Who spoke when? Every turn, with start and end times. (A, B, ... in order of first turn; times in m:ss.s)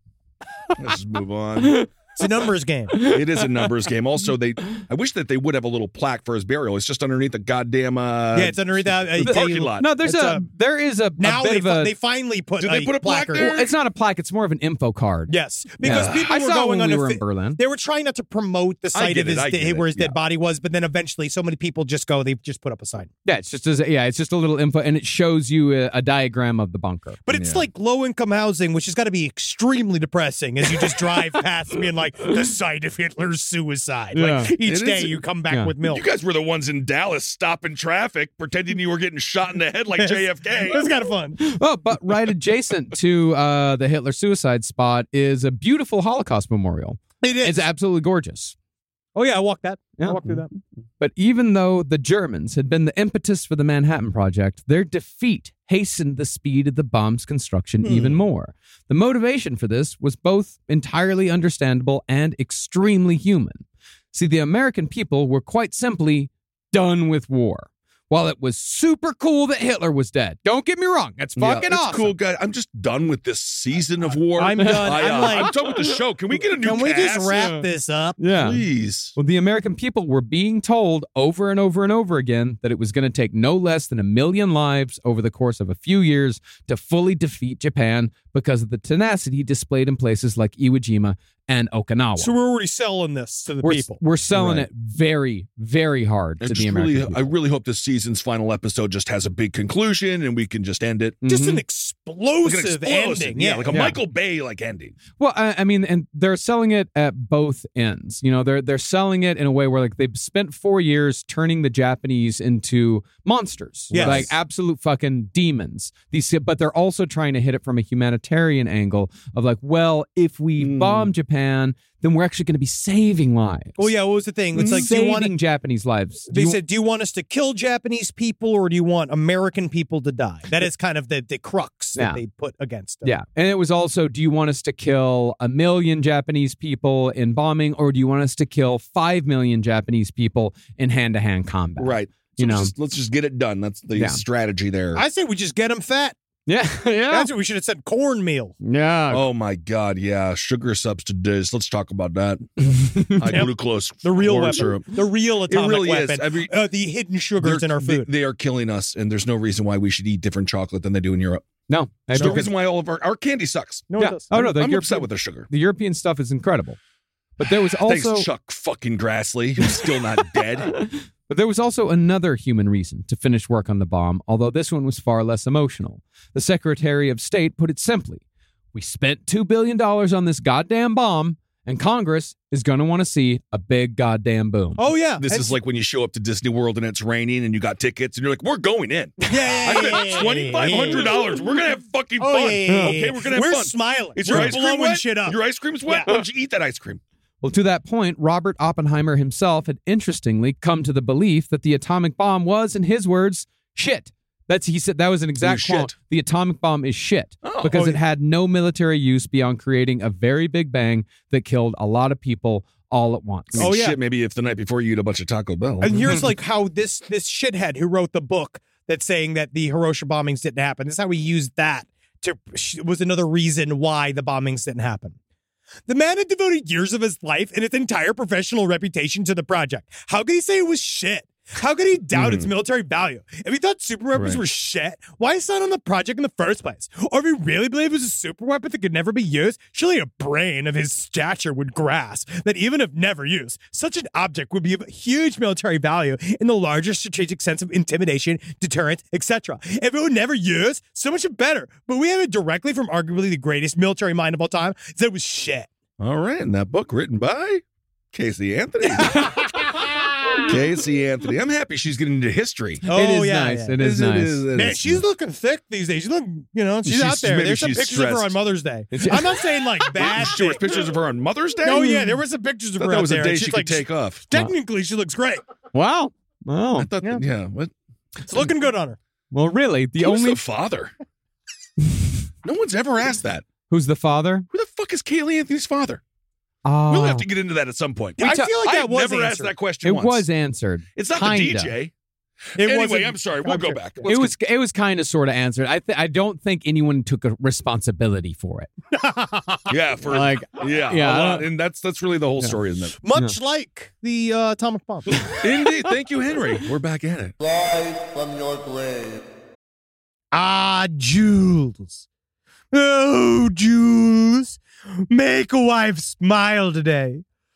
0:00.8-0:01.8 A
0:02.2-0:03.0 B
0:02.9-0:03.7 C
0:03.0-0:09.9 A
0:08.3-0:10.4 B
0:09.2-0:11.9 C
0:11.2-0:13.5 B
0:12.6-0:13.7 A
0:13.4-0:17.6 C
0:15.3-0:23.1 B
0:15.8-0:16.2 A
0:18.9-0:20.2 A
0:23.2-0:27.2 C
0:27.2-0:36.0 B
0:27.3-0:27.6 A
0:34.1-0:34.5 C
0:34.6-0:35.2 A
0:35.9-0:40.9 A
0:40.0-0:41.4 B
0:41.4-0:48.5 C
0:47.2-0:47.7 B
0:49.1-0:50.5 B
0:50.0-0:50.2 C
0:51.0-1:12.1 C
0:57.8-0:58.2 A
1:11.4-1:17.4 A
1:14.3-1:15.5 B
1:14.6-1:16.0 C
1:16.6-1:18.2 B
1:17.4-1:17.6 C
1:18.2-1:18.6 C
1:18.3-1:19.1 A
1:19.2-1:32.3 C
1:32.2-1:34.0 B
1:33.6-1:37.3 C
1:34.3-1:34.7 A
1:36.4-1:41.2 A
1:41.2-1:41.6 C
1:41.2-1:43.8 B
1:42.4-1:45.0 A
1:43.7-1:44.0 C
1:45.2-2:03.9 C
1:53.9-1:54.3 A
1:53.9-1:54.3 B
2:00.6-2:01.1 A
2:03.8-2:05.3 B
2:04.6-2:04.8 A
2:04.6-2:06.6 C
2:06.3-2:13.1 B
2:12.0-2:12.2 C
2:13.0-2:22.7 C
2:21.8-2:25.0 A
2:24.0-2:24.2 C
2:24.9-2:26.2 B
2:26.5-2:27.3 C
2:27.1-2:28.6 B
2:28.6-2:29.2 C
2:29.1-2:36.5 A
2:32.8-2:33.4 C
2:34.0-2:38.1 B
2:37.4-2:41.4 A
2:41.7-2:42.5 C
2:42.1-2:42.4 B
2:42.1-2:45.5 A
2:43.9-2:44.3 B
2:44.0-2:46.8 C
2:47.4-2:48.3 C
2:47.8-2:50.7 A
2:49.6-2:58.2 C
2:58.7-3:04.9 C
3:04.8-3:05.6 B
3:05.2-3:17.0 A
3:09.3-3:11.4 B
3:12.2-3:16.1 B
3:12.7-3:13.0 C
3:14.2-3:14.5 C
3:17.4-3:33.7 C
3:25.4-3:25.9 A
3:27.4-3:27.8 A
3:27.7-3:28.0 B
3:33.5-3:36.2 A
3:33.6-3:34.0 B
3:35.8-3:45.2 B
3:45.9-4:15.7 B
3:52.1-3:52.5 A
3:54.1-3:54.4 A
4:16.0-4:19.4 A
4:18.9-4:20.5 B
4:20.4-4:22.8 A
4:22.8-4:23.8 B
4:22.9-4:24.4 C
4:23.8-4:25.0 A
4:24.5-4:30.6 B
4:26.8-4:28.4 A
4:28.9-4:29.2 C
4:30.0-4:32.1 A
4:31.6-4:35.4 B
4:32.8-4:34.2 A
4:35.7-4:36.9 C
4:36.8-4:37.7 A
4:38.3-4:39.0 B
4:39.3-4:40.4 C
4:40.0-4:40.9 A
4:41.8-4:42.1 C
4:42.4-4:43.4 A
4:43.7-4:44.4 C
4:44.5-4:46.0 A
4:46.6-4:47.2 C
4:46.9-4:50.2 A
4:48.2-4:49.5 B
4:48.2-4:48.5 C
4:49.8-4:51.7 C
4:51.0-4:51.9 A
4:52.5-4:54.3 A
4:52.6-4:54.2 B
4:54.1-4:58.7 C
4:58.9-4:59.7 B
4:59.7-5:03.0 A
5:00.1-5:01.4 C
5:03.0-5:05.2 B
5:05.4-5:07.3 A
5:10.3-5:12.0 B
5:12.7-5:17.2 B